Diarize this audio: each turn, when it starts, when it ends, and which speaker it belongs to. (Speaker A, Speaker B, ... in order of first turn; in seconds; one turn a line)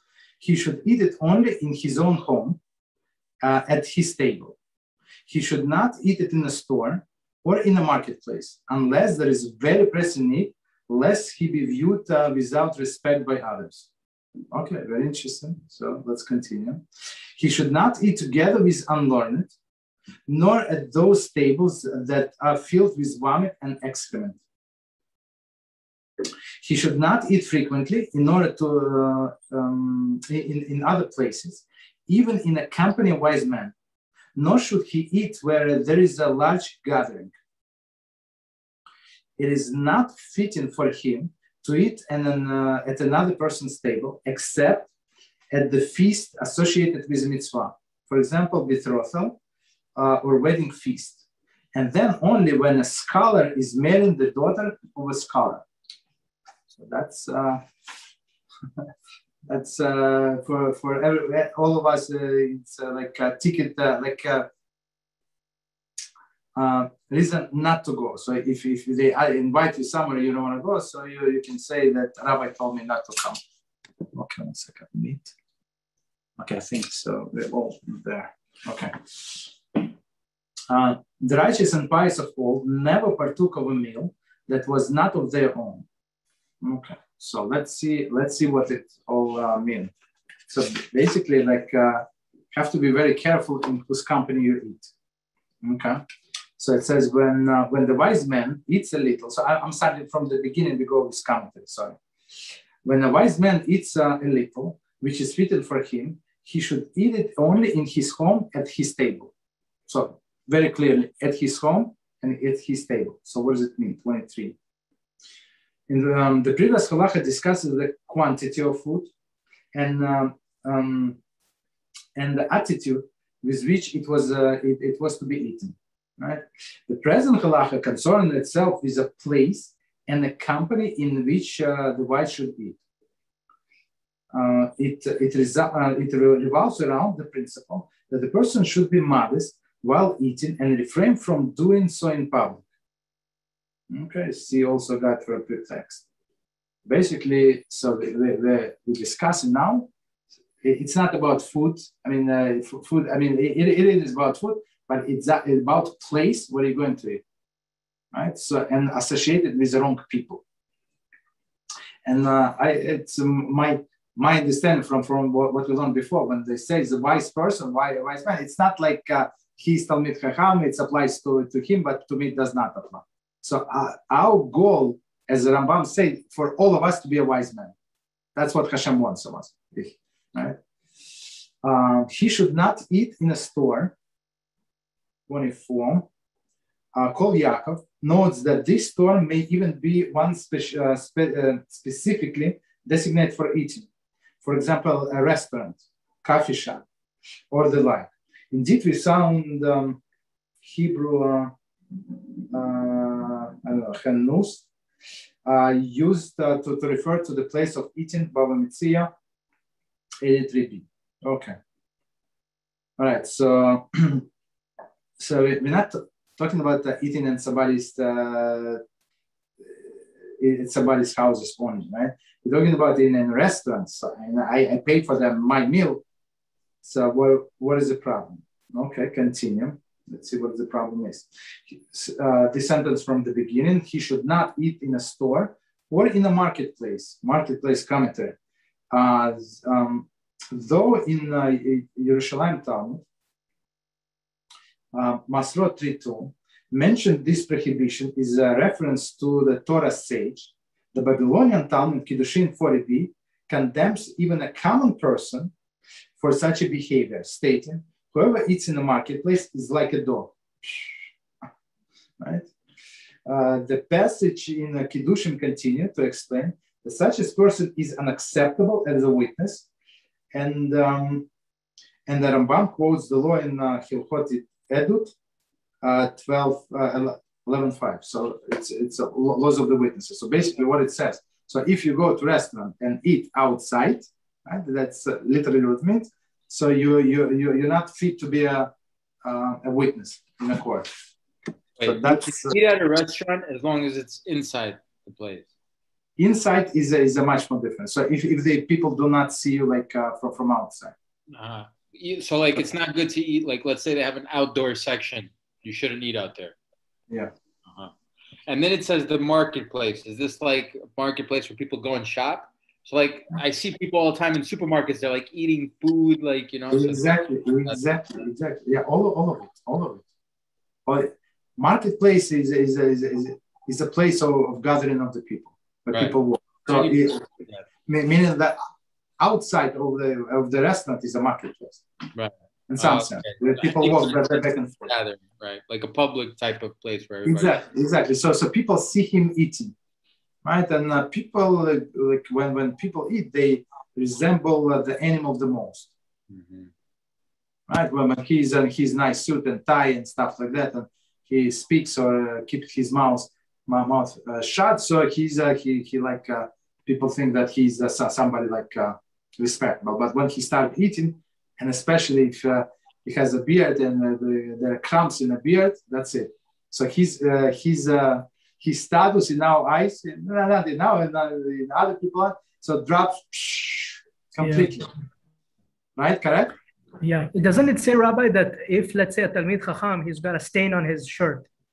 Speaker A: 0.4-2.6
Speaker A: 3.4-4.6
Speaker A: 5.3-13.9
Speaker A: 14.5-16.8
Speaker A: 17.4-19.5
Speaker A: 20.3-24.4
Speaker A: 26.6-33.7
Speaker A: 34.4-37.4
Speaker A: 39.4-44.9
Speaker A: 45.5-49.4
Speaker A: 50.0-51.2
Speaker A: 51.8-55.6
Speaker A: 56.7-57.6
Speaker A: 59.5-64.5
Speaker A: 66.6-73.4
Speaker A: 74.1-75.3
Speaker A: 76.4-79.8
Speaker A: 80.7-85.9
Speaker A: 86.6-89.9
Speaker A: 90.5-94.9
Speaker A: 95.6-96.0
Speaker A: 96.6-102.0
Speaker A: 102.8-109.3
Speaker A: 109.9-114.6
Speaker A: 115.9-119.1
Speaker A: 119.7-121.2
Speaker A: 122.2-132.8
Speaker A: 134.3-142.6
Speaker A: 143.9-146.1
Speaker A: 146.9-149.9
Speaker A: 150.6-157.2
Speaker A: 158.1-160.4
Speaker A: 162.1-177.8
Speaker A: 178.4-180.6
Speaker A: 181.6-184.0
Speaker A: 185.3-186.1
Speaker A: 186.9-193.9
Speaker A: 194.4-196.8
Speaker A: 197.5-200.0
Speaker A: 200.6-201.5
Speaker A: 202.5-204.7
Speaker A: 205.5-209.1
Speaker A: 210.2-211.5
Speaker A: 213.0-214.3
Speaker A: 215.2-218.8
Speaker A: 219.7-226.0
Speaker A: 226.8-238.4
Speaker A: 238.9-243.0
Speaker A: 244.9-255.5
Speaker A: 256.2-260.9
Speaker A: 262.2-262.5
Speaker A: 263.3-269.7
Speaker A: 270.3-271.3
Speaker A: 272.1-275.1
Speaker A: 275.8-288.7
Speaker A: 289.2-290.9
Speaker B: 291.8-295.5
Speaker A: 291.8-292.6
Speaker A: 296.2-300.9
Speaker B: 301.3-306.6
Speaker B: 308.5-317.8
Speaker A: 316.7-320.0
Speaker A: 320.9-327.2
Speaker B: 326.7-327.6
Speaker A: 327.9-328.6
Speaker A: 329.2-331.8
Speaker B: 332.1-337.6
Speaker A: 332.7-334.9
Speaker A: 337.2-339.7
Speaker A: 340.4-345.9
Speaker B: 346.3-346.7
Speaker A: 347.7-374.9
Speaker C: 374.4-374.7
Speaker A: 376.0-376.5
Speaker C: 377.0-381.5